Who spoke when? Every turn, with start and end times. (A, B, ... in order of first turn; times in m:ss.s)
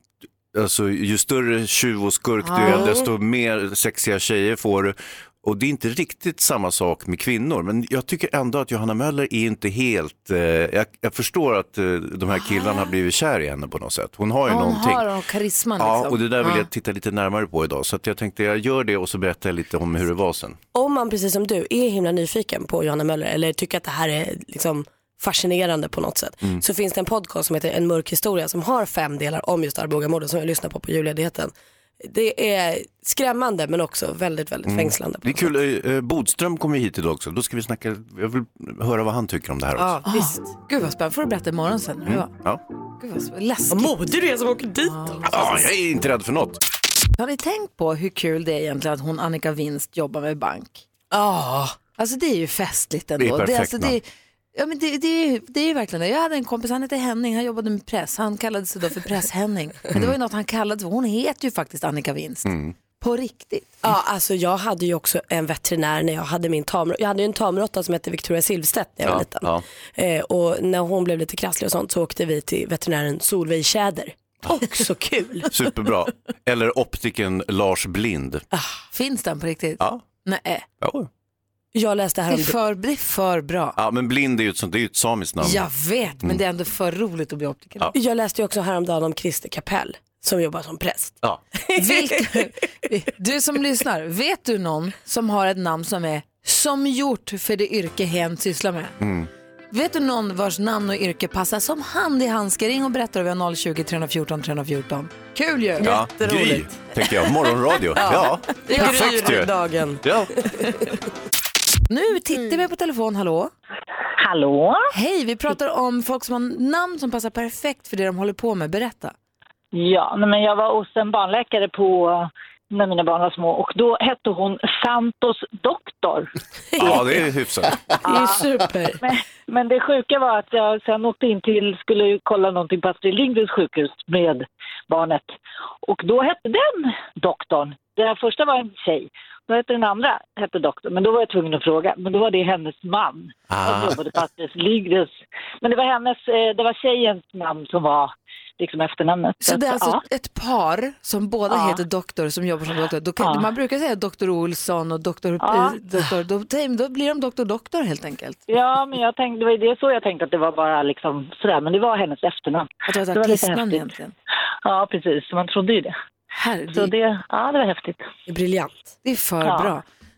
0:00.5-0:15.0 A
0:02.4-0:02.9 B
0:02.6-0:03.1 C
0:12.4-0:12.9 B
0:14.5-0:16.7 B
0:15.8-0:20.6 A
0:20.7-0:35.5 C
0:34.7-0:40.0 A
0:39.8-0:40.5 C
0:40.1-0:42.3 B
0:42.1-0:42.6 A
0:43.0-0:43.9 B
0:43.7-0:45.6 C
0:44.9-0:45.4 B
0:45.3-0:46.6 A
0:47.2-0:50.8 B
0:51.1-0:51.8 C
0:52.0-1:03.8 B
0:53.2-0:54.0 A
1:02.4-1:02.8 A
1:03.8-1:15.5 C
1:09.0-1:09.6 A
1:15.5-1:18.4 A
1:18.5-1:18.8 C
1:18.9-1:20.6 B
1:20.8-1:21.1 A
1:21.8-1:22.6 C
1:22.3-1:23.8 B
1:23.8-1:25.6 A
1:25.4-1:27.9 B
1:27.9-1:32.5 C
1:31.8-1:39.0 B
1:39.0-1:39.3 A
1:39.7-1:45.9 B
1:45.8-1:46.8 C
1:45.8-1:50.4 A
1:48.0-1:50.9 C
1:48.7-1:49.3 B
1:51.9-1:53.5 B
1:54.2-1:54.9 D
1:54.9-1:59.1 B
1:59.7-2:06.3 D
2:06.8-2:07.8 A
2:07.9-2:09.0 C
2:08.0-2:08.4 D
2:09.0-2:30.0 D
2:23.5-2:24.0 A
2:29.4-2:38.4 B
2:31.5-2:31.8 D
2:33.2-2:33.5 D
2:35.4-2:36.1 D
2:38.5-2:43.9 D
2:42.9-2:44.1 B
2:44.6-2:45.9 D
2:46.4-2:46.9 B
2:46.7-2:48.0 D
2:48.3-2:48.8 C
2:49.0-2:49.8 B
2:49.4-2:49.7 D